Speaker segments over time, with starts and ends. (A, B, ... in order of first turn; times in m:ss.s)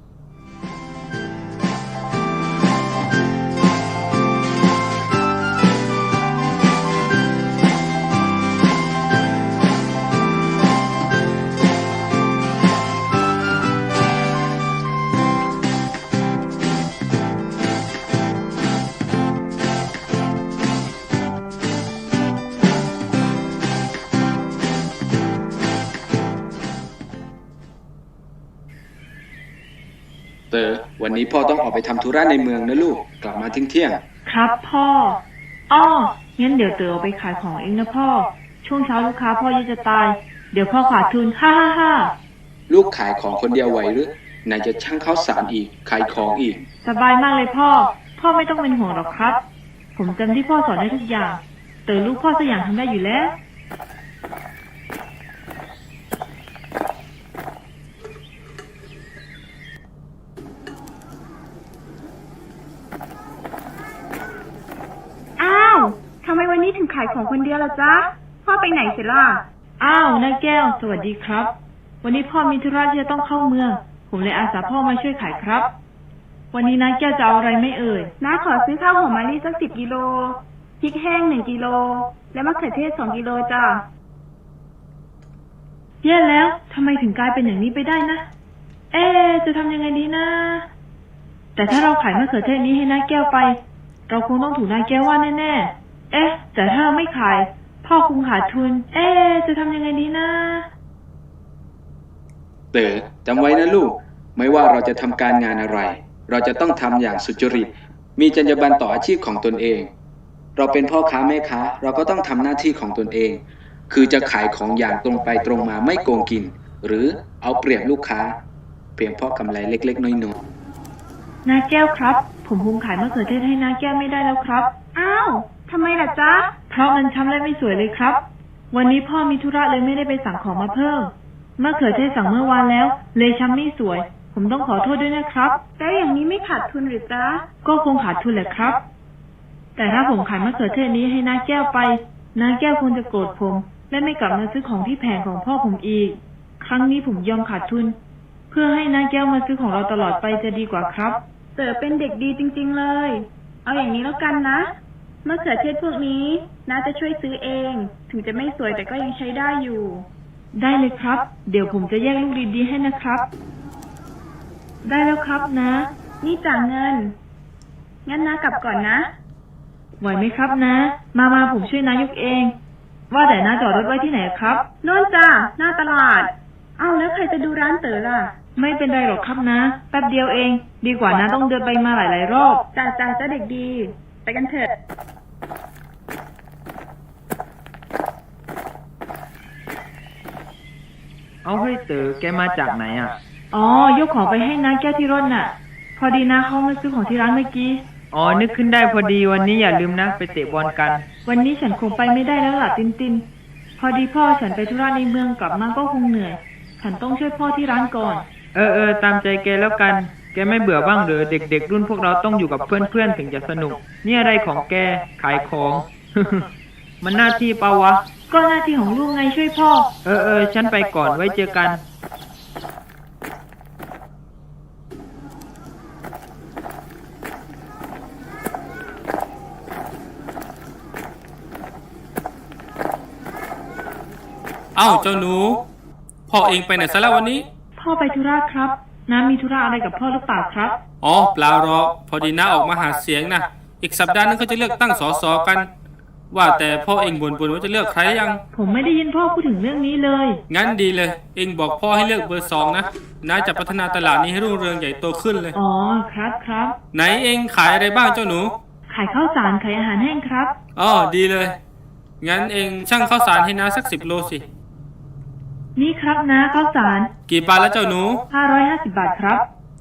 0:30.5-0:34.0 A
0:34.2-0:42.1 B
0:42.7-0:46.6 A
0:46.8-0:49.4 B
0:50.0-0:53.4 B
1:05.4-1:09.4 C
1:09.8-1:15.7 B
1:16.5-1:18.1 B
1:18.2-1:23.8 C
1:26.0-1:28.3 B
1:28.9-1:30.7 B
1:31.6-1:40.7 B
1:42.7-1:49.9 A
1:50.6-1:58.4 A
1:59.0-2:00.4 A
2:01.4-2:04.7 B
2:04.9-2:06.5 C
2:06.7-2:15.6 B
2:15.8-2:17.5 C
2:17.6-2:18.8 B
2:19.8-2:28.0 B
2:28.5-2:31.2 B
2:31.6-2:34.7 C
2:35.2-2:40.1 C
2:40.5-2:43.3 B
2:44.8-2:45.9 B
2:46.2-2:47.2 C
2:48.1-2:49.1 C
2:50.0-2:52.5 B
2:53.1-2:54.7 B
2:54.8-2:58.3 C
2:58.6-3:02.6 B
3:02.7-3:04.7 C
3:11.4-3:13.2 D
3:13.5-3:17.8 B
3:18.1-3:21.1 D
3:21.2-3:23.3 B
3:23.8-3:28.2 B
3:28.5-3:36.5 D
3:37.0-3:38.0 D
3:38.3-3:39.9 B
3:40.0-3:41.8 D
3:54.8-3:55.6 E
3:56.3-3:57.4 E
3:57.8-4:00.8 B
4:01.0-4:05.7 E
4:06.3-4:08.4 E
4:08.5-4:10.4 B
4:10.5-4:15.5 E
4:15.5-4:16.8 B
4:16.9-4:18.5 E
4:18.9-4:20.6 B
4:20.8-4:21.6 E
4:22.2-4:24.4 E
4:25.8-4:27.1 B
4:27.3-4:28.2 E
4:28.3-4:29.5 B